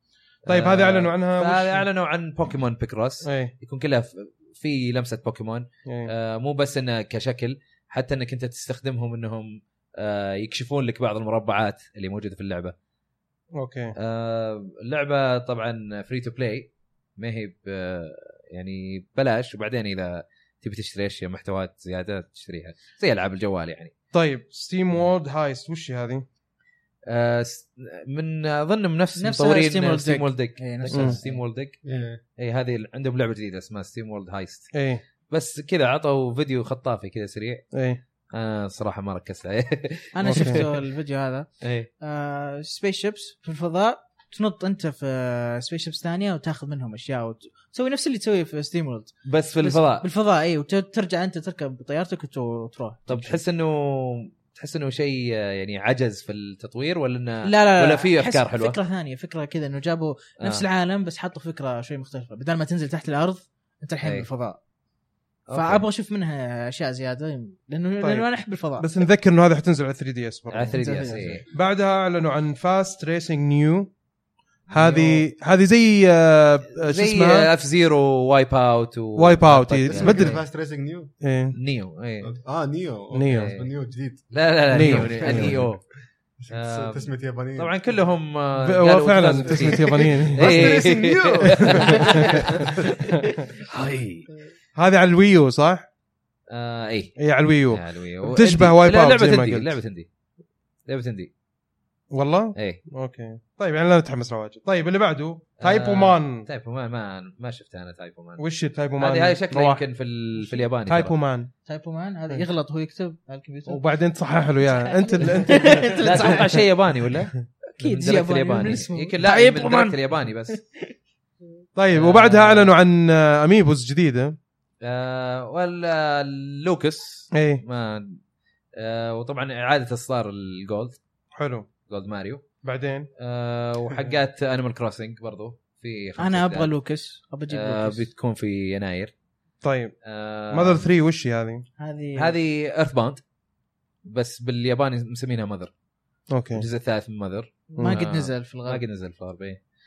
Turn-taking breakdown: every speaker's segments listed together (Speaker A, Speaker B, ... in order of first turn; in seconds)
Speaker A: 0.5-1.8, 3.2-3.5, 5.8-6.1, 13.6-13.9, 24.1-26.2, 30.9-31.2, 34.7-35.0, 37.7-38.0, 40.2-40.6, 68.0-73.9, 74.7-77.5, 79.2-80.4, 81.2-81.5, 83.1-83.5, 84.7-85.7, 88.6-90.8, 91.5-92.5, 94.7-95.9, 97.2-99.8, 102.1-106.5, 108.4-109.8, 110.8-111.5, 113.7-116.4, 121.8-124.4, 127.3-127.6, 131.3-131.7, 132.6-133.1, 139.6-139.9, 140.5-141.6, 146.3-146.7
Speaker B: 0.5-12.7, 13.9-23.9, 27.1-31.8, 32.4-34.7, 35.3-37.6, 38.3-40.6, 41.6-41.9, 49.2-50.0, 53.1-58.8, 60.4-60.6, 65.5-65.8, 70.5-71.4, 74.7-75.2, 76.8-80.4, 81.5-82.3, 83.3-83.7, 84.3-85.8, 86.5-94.3, 96.5-97.2, 97.7-100.1, 100.9-101.3, 105.6-108.4, 109.0-111.1, 115.4-120.6, 121.9-122.7, 124.8-128.2, 128.8-131.0, 131.9-132.4, 133.2-136.7, 137.5-139.1, 140.0-140.8, 142.1-143.2, 144.0-145.7, 146.5-149.6
Speaker C: 29.2-31.4, 40.1-41.5, 42.0-53.4, 57.4-64.6, 65.5-68.9, 70.8-71.4, 111.7-113.8, 114.6-116.6, 117.8-120.0, 136.2-138.0, 141.8-142.3, 147.8-148.8
Speaker D: 31.8-32.2, 79.9-81.1, 82.2-85.7, 86.4-87.7, 90.2-92.9